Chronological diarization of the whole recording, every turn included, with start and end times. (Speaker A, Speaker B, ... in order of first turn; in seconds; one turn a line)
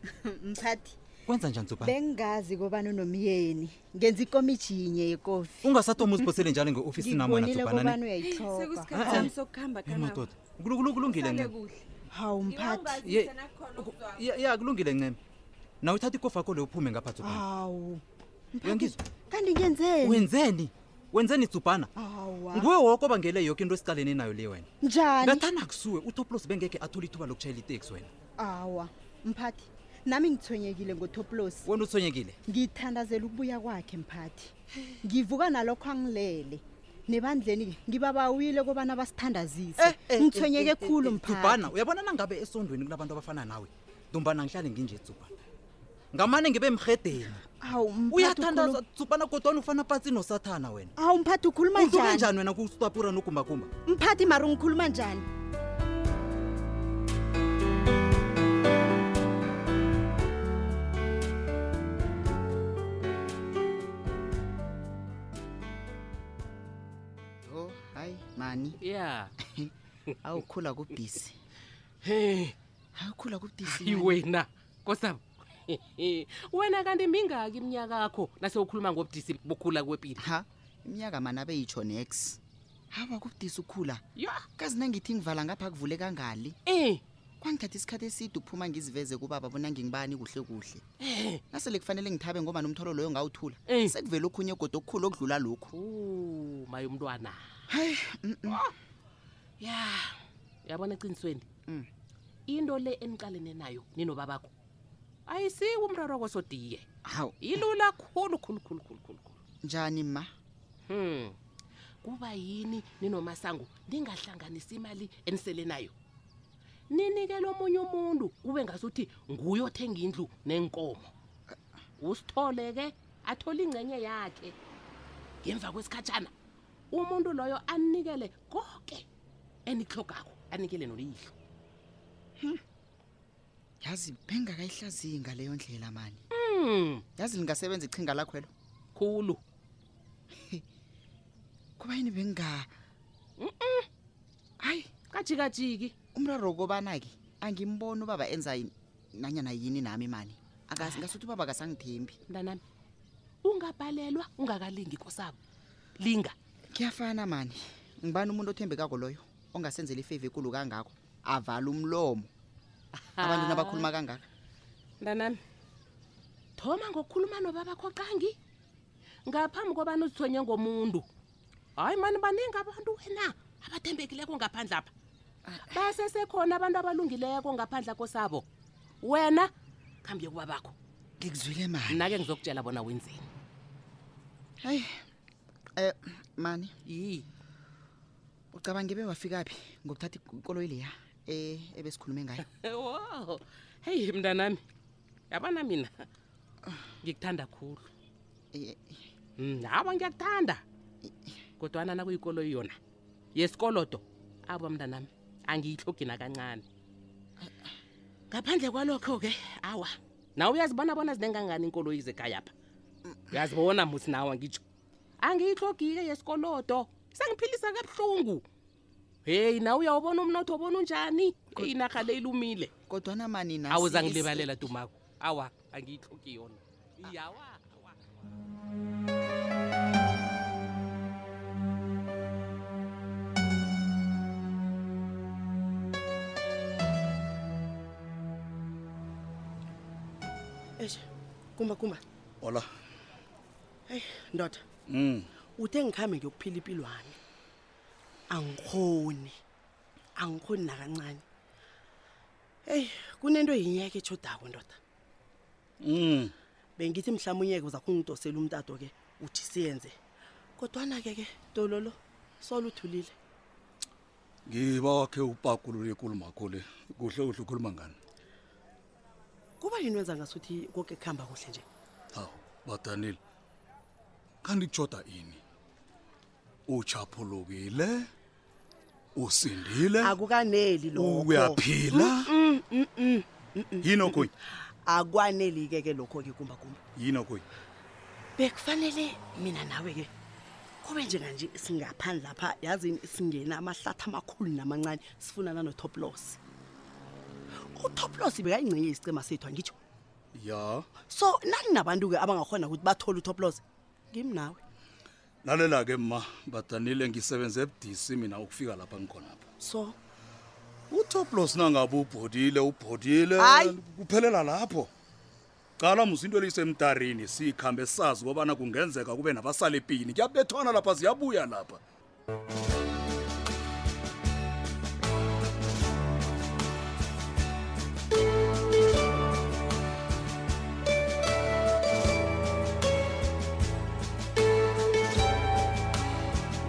Speaker A: 0.2-0.9
Speaker B: 1.3-2.0
Speaker A: 1.8-6.1
Speaker B: 5.6-8.0
Speaker A: 7.0-9.3
Speaker C: 8.2-10.3
Speaker B: 8.9-9.3
Speaker B: 9.8-11.5
Speaker C: 11.0-11.8
Speaker A: 12.1-13.0
Speaker C: 12.5-14.2
Speaker B: 13.0-15.2
Speaker B: 15.8-17.4
Speaker A: 17.2-18.0
Speaker A: 18.5-20.3
Speaker B: 18.6-19.0
Speaker B: 20.0-21.9
Speaker A: 22.0-22.7
Speaker B: 22.5-24.7
Speaker A: 24.8-25.5
Speaker B: 25.2-28.1
Speaker A: 28.4-31.7
Speaker B: 31.6-32.4
Speaker A: 32.5-34.5
Speaker A: 35.0-41.7
Speaker B: 39.8-45.3
Speaker B: 46.1-47.4
Speaker A: 47.6-48.8
Speaker B: 48.1-50.9
Speaker A: 51.0-52.3
Speaker B: 51.7-53.7
Speaker A: 53.9-55.3
Speaker D: 67.4-68.8
Speaker E: 68.8-69.3
Speaker D: 69.4-69.7
Speaker D: 70.2-71.4
Speaker E: 72.0-72.5
Speaker D: 73.0-74.2
Speaker E: 73.6-80.2
Speaker D: 80.2-82.4
Speaker D: 82.9-84.0
Speaker E: 84.2-84.5
Speaker D: 84.6-86.6
Speaker E: 86.7-87.0
Speaker D: 87.4-90.8
Speaker E: 91.0-91.4
Speaker D: 91.5-95.7
Speaker E: 93.7-94.0
Speaker E: 95.7-97.4
Speaker D: 97.7-98.6
Speaker E: 98.5-98.7
Speaker E: 99.6-101.5
Speaker E: 102.5-104.5
Speaker E: 105.3-106.8
Speaker D: 107.0-107.5
Speaker E: 107.4-109.4
Speaker D: 109.6-110.3
Speaker E: 110.9-111.4
Speaker E: 112.0-116.0
Speaker E: 116.9-121.1
Speaker E: 122.0-124.6
Speaker E: 125.4-126.3
Speaker E: 126.9-129.1
Speaker E: 129.7-131.3
Speaker D: 133.8-136.2
Speaker E: 136.3-137.0
Speaker D: 137.2-138.5
Speaker E: 138.9-139.4
Speaker D: 141.8-142.7
Speaker E: 143.4-143.9
Speaker D: 144.6-144.9
Speaker E: 145.1-145.9
Speaker D: 146.2-152.2
Speaker E: 152.3-152.6
Speaker E: 153.4-155.4
Speaker E: 156.0-156.3
Speaker D: 156.7-162.3
Speaker E: 163.0-163.9
Speaker D: 163.2-164.2
Speaker E: 165.0-165.4
Speaker E: 166.6-168.3
Speaker E: 169.3-171.1
Speaker E: 171.8-174.9
Speaker D: 175.5-175.9
Speaker E: 175.7-178.5
Speaker E: 179.0-179.5
Speaker E: 180.0-180.8
Speaker D: 181.2-182.1
Speaker E: 181.9-183.3
Speaker D: 184.6-184.9
Speaker D: 185.8-186.7
Speaker E: 186.8-187.3
Speaker D: 188.5-192.4
Speaker E: 192.6-194.6
Speaker E: 195.3-196.1
Speaker E: 197.0-197.8
Speaker D: 198.5-199.0
Speaker E: 199.4-200.6
Speaker D: 201.1-201.3
Speaker E: 201.6-202.8
Speaker E: 203.3-206.7
Speaker E: 208.3-212.5
Speaker E: 213.3-214.6
Speaker E: 215.2-218.4
Speaker E: 219.2-222.7
Speaker D: 222.9-224.7
Speaker E: 223.7-228.0
Speaker F: 240.8-241.1
Speaker F: 241.6-242.0
Speaker F: 243.9-244.6
Speaker B: 244.9-245.2
Speaker F: 245.6-247.2
Speaker F: 248.3-249.4
Speaker F: 250.2-251.2
Speaker F: 252.7-254.8
Speaker G: 255.8-256.3
Speaker F: 256.8-260.0
Speaker F: 260.6-263.1
Speaker G: 264.5-268.0
Speaker F: 269.6-271.7
Speaker G: 272.1-273.2
Speaker B: 272.2-272.5
Speaker G: 274.4-275.4
Speaker B: 276.7-277.0
Speaker G: 276.9-278.1
Speaker B: 279.2-280.2
Speaker F: 280.0-284.3
Speaker B: 281.0-282.3
Speaker B: 283.8-284.3
Speaker F: 284.9-286.8
Speaker B: 287.0-287.4
Speaker F: 288.4-290.1
Speaker F: 290.8-296.4
Speaker F: 297.7-299.8
Speaker G: 300.4-300.9
Speaker F: 301.1-304.6
Speaker G: 305.4-309.5
Speaker F: 309.6-310.0
Speaker G: 310.9-314.9
Speaker F: 313.4-313.8
Speaker G: 315.8-321.8